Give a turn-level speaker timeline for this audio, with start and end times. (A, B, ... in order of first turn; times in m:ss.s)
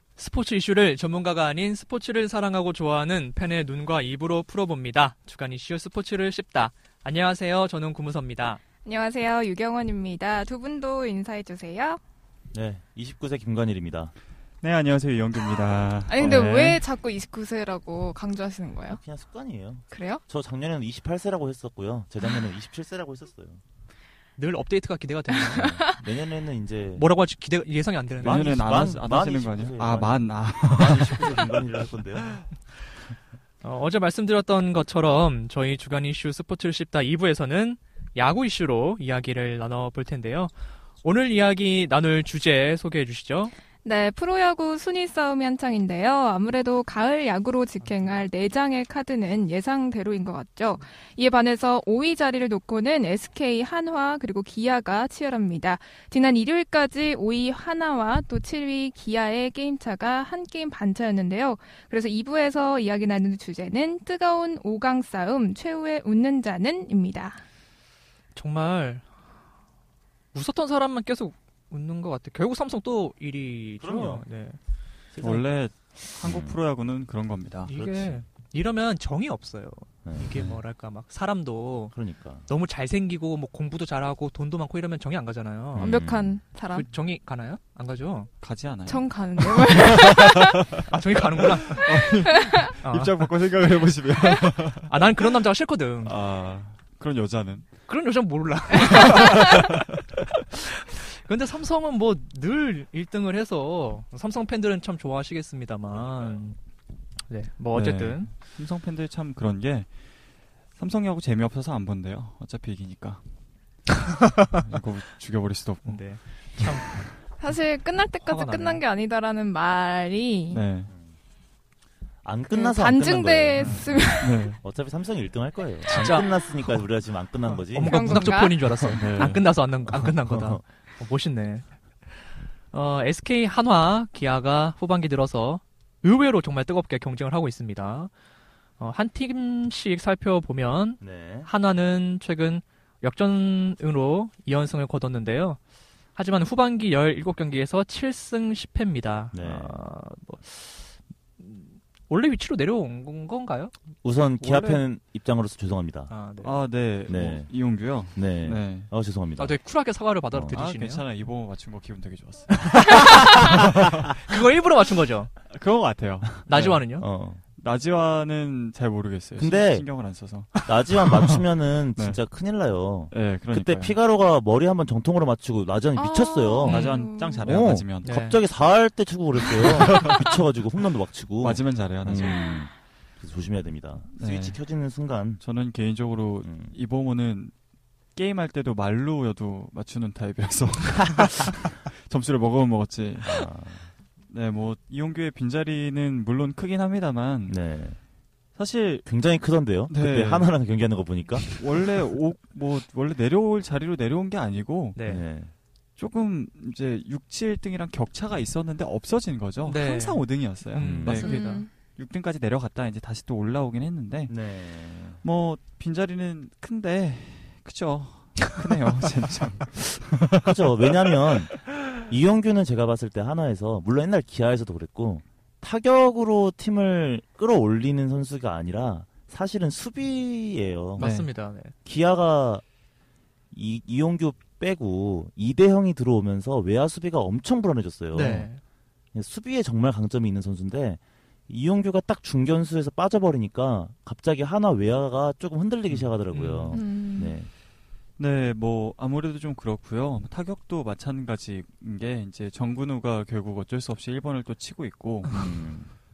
0:00.2-0:08.6 A
0:08.8-0:12.0 B
0:12.5-0:14.1 C
0:14.6-0:16.8 D
0:16.1-0:19.0 B
0:18.9-0:23.6 C
0:19.9-0:20.2 B
0:24.4-0:25.8 A
0:25.3-0:26.0 B
0:25.5-0:27.1 C
0:27.0-0:28.7 A
0:28.2-0:32.5 C
0:28.2-0:31.6 D
0:33.6-0:40.5 A
0:41.0-0:43.5 A
0:43.8-1:07.4 B
1:08.3-1:09.0 A
1:10.3-1:14.6 A
1:13.8-1:14.2 C
1:15.1-1:15.5 C
1:15.2-1:17.7 D
1:16.2-1:16.6 C
1:17.7-1:21.9 A
1:17.7-1:18.2 C
1:20.0-1:20.6 C
1:21.9-1:22.5 C
1:22.5-1:26.0 A
1:25.7-1:26.4 C
1:25.8-1:26.8 B
1:26.7-1:28.3 A
1:28.4-1:35.2 D
1:28.8-1:30.7 B
1:30.9-1:32.0 A
1:32.2-1:32.5 B
1:32.8-1:33.1 A
1:34.8-1:36.1 A
1:36.0-1:37.7 D
1:37.9-1:39.8 A
1:38.8-1:40.2 D
1:40.9-1:46.6 A
1:47.3-1:48.3 A
1:47.7-1:49.9 D
1:50.7-1:53.2 D
1:54.6-1:56.0 D
1:55.8-1:57.2 A
1:56.6-1:57.0 D
1:57.4-2:00.6 B
1:58.2-1:58.8 A
2:00.5-2:00.9 D
2:02.2-2:08.4 C
2:02.5-2:04.5 B
2:04.2-2:04.6 D
2:05.9-2:06.4 A
2:07.7-2:11.7 A
2:07.8-2:09.0 B
2:08.9-2:09.4 D
2:09.8-2:10.6 C
2:12.7-2:18.1 A
2:18.8-2:25.6 A
2:21.0-2:21.5 C
2:26.1-2:33.7 A
2:29.3-2:29.8 C
2:34.0-2:36.1 C
2:34.4-2:34.8 D
2:36.1-2:36.6 A
2:36.4-2:38.9 D
2:37.1-2:39.6 C
2:39.4-2:41.0 A
2:40.3-2:40.6 C
2:40.5-2:44.1 D
2:42.6-2:45.3 A
2:45.5-2:46.8 D
2:46.5-2:47.0 A
2:46.5-2:47.4 C
2:47.6-2:50.5 D
2:49.4-2:49.9 C
2:50.5-2:56.8 C
2:51.0-2:51.4 D
2:51.9-2:52.2 D
2:53.1-2:54.0 D
2:56.0-2:57.4 B
2:56.6-2:57.0 A
2:56.6-2:58.1 D
2:57.4-3:05.4 C
2:58.0-2:58.4 A
2:59.6-3:00.2 D
3:01.4-3:02.4 D
3:04.2-3:04.6 D
3:05.4-3:07.5 D
3:06.4-3:06.7 C
3:08.2-3:13.5 D
3:13.2-3:13.9 C
3:14.3-3:17.6 D
3:17.5-3:18.0 C
3:18.6-3:19.1 D
3:19.0-3:21.6 C
3:19.9-3:20.5 D
3:21.4-3:25.1 D
3:24.9-3:25.2 A
3:25.0-3:25.5 C
3:26.0-3:34.4 D
3:29.6-3:31.6 A
3:30.8-3:31.3 C
3:31.2-3:31.7 B
3:34.3-3:35.2 C
3:35.2-3:41.3 D
3:40.4-3:51.1 C
3:51.0-3:51.3 D
3:51.0-3:51.7 A
3:51.8-3:52.6 C
3:53.5-3:58.5 C
3:58.1-3:58.6 A
3:59.1-4:07.5 C
4:06.3-4:06.8 A
4:06.7-4:07.3 B
4:08.2-4:15.4 D
4:15.3-4:15.9 C